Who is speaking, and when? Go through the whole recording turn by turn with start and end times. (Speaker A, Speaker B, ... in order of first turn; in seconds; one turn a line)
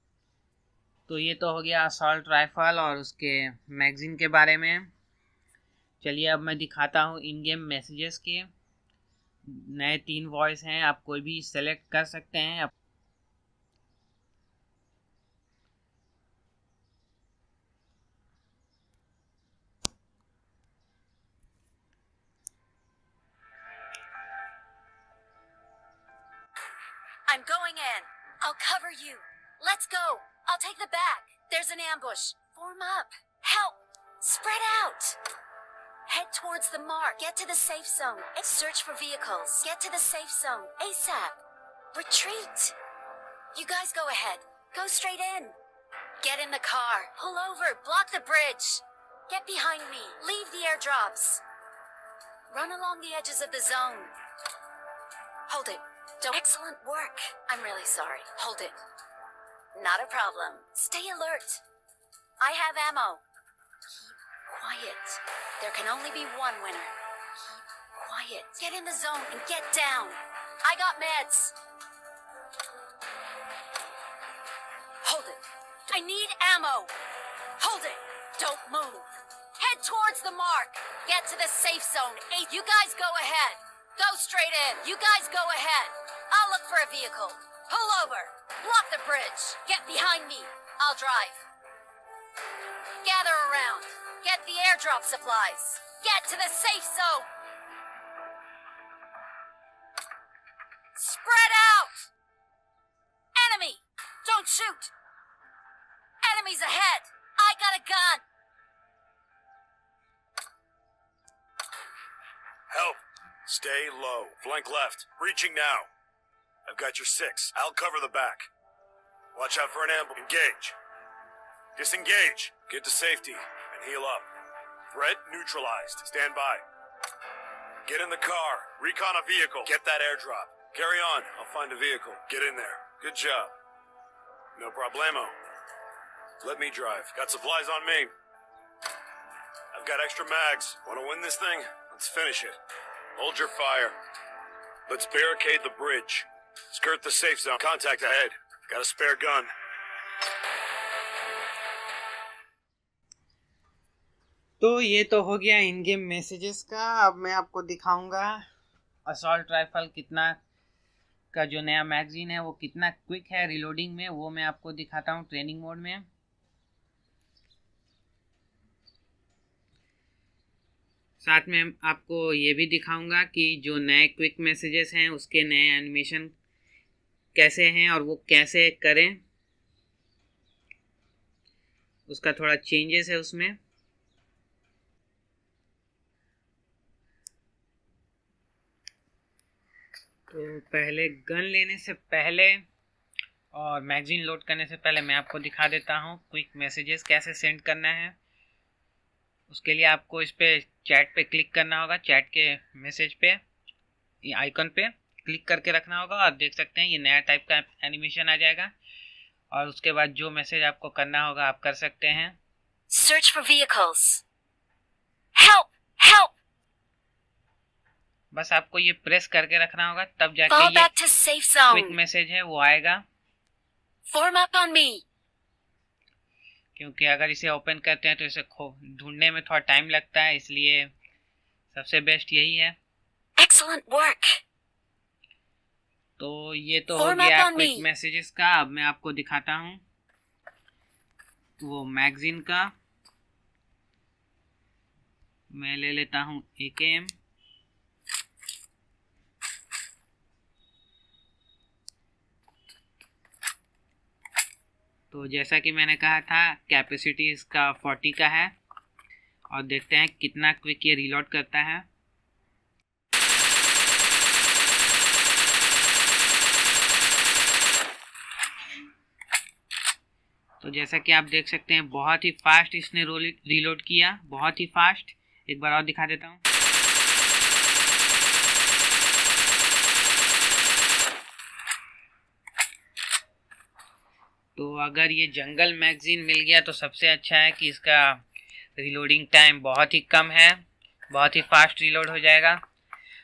Speaker A: 1.1-4.9
Speaker A: 6.0-8.5
Speaker A: 9.5-12.7
Speaker B: 27.3-35.2
Speaker B: 36.1-41.4
Speaker B: 41.9-42.8
Speaker B: 43.5-45.5
Speaker B: 46.2-51.4
Speaker B: 52.5-54.1
Speaker B: 55.5-58.8
Speaker B: 59.7-61.6
Speaker B: 62.4-63.2
Speaker B: 63.9-71.5
Speaker B: 75.0-76.9
Speaker B: 77.6-91.4
Speaker B: 93.0-97.3
Speaker B: 101.0-102.1
Speaker B: 103.3-104.9
Speaker B: 106.2-108.2
Speaker C: 112.7-115.9
Speaker C: 116.7-118.5
Speaker C: 119.3-120.8
Speaker C: 121.8-124.3
Speaker C: 124.9-126.6
Speaker C: 127.8-133.5
Speaker C: 134.5-135.4
Speaker C: 136.4-138.1
Speaker C: 139.7-142.6
Speaker C: 143.2-143.9
Speaker C: 144.9-149.5
Speaker A: 154.6-158.4
Speaker A: 159.1-160.4
Speaker A: 161.3-166.0
Speaker A: 171.2-176.3
Speaker A: 177.3-179.2
Speaker A: 182.1-183.6
Speaker A: 190.3-192.6
Speaker A: 193.5-198.1
Speaker A: 199.5-203.4
Speaker A: 204.2-208.7
Speaker A: 209.5-212.4
Speaker B: 212.9-214.2
Speaker B: 215.3-216.3
Speaker A: 218.3-220.9
Speaker B: 220.5-221.9
Speaker A: 221.7-223.0
Speaker B: 224.1-225.0
Speaker A: 226.8-230.9
Speaker A: 231.7-232.8
Speaker B: 233.4-234.4
Speaker A: 236.2-239.8
Speaker B: 236.9-237.8
Speaker A: 241.6-242.7
Speaker A: 245.5-247.1
Speaker A: 255.1-258.5
Speaker A: 259.5-261.9
Speaker A: 270.6-276.4
Speaker A: 284.6-288.2
Speaker A: 288.8-292.6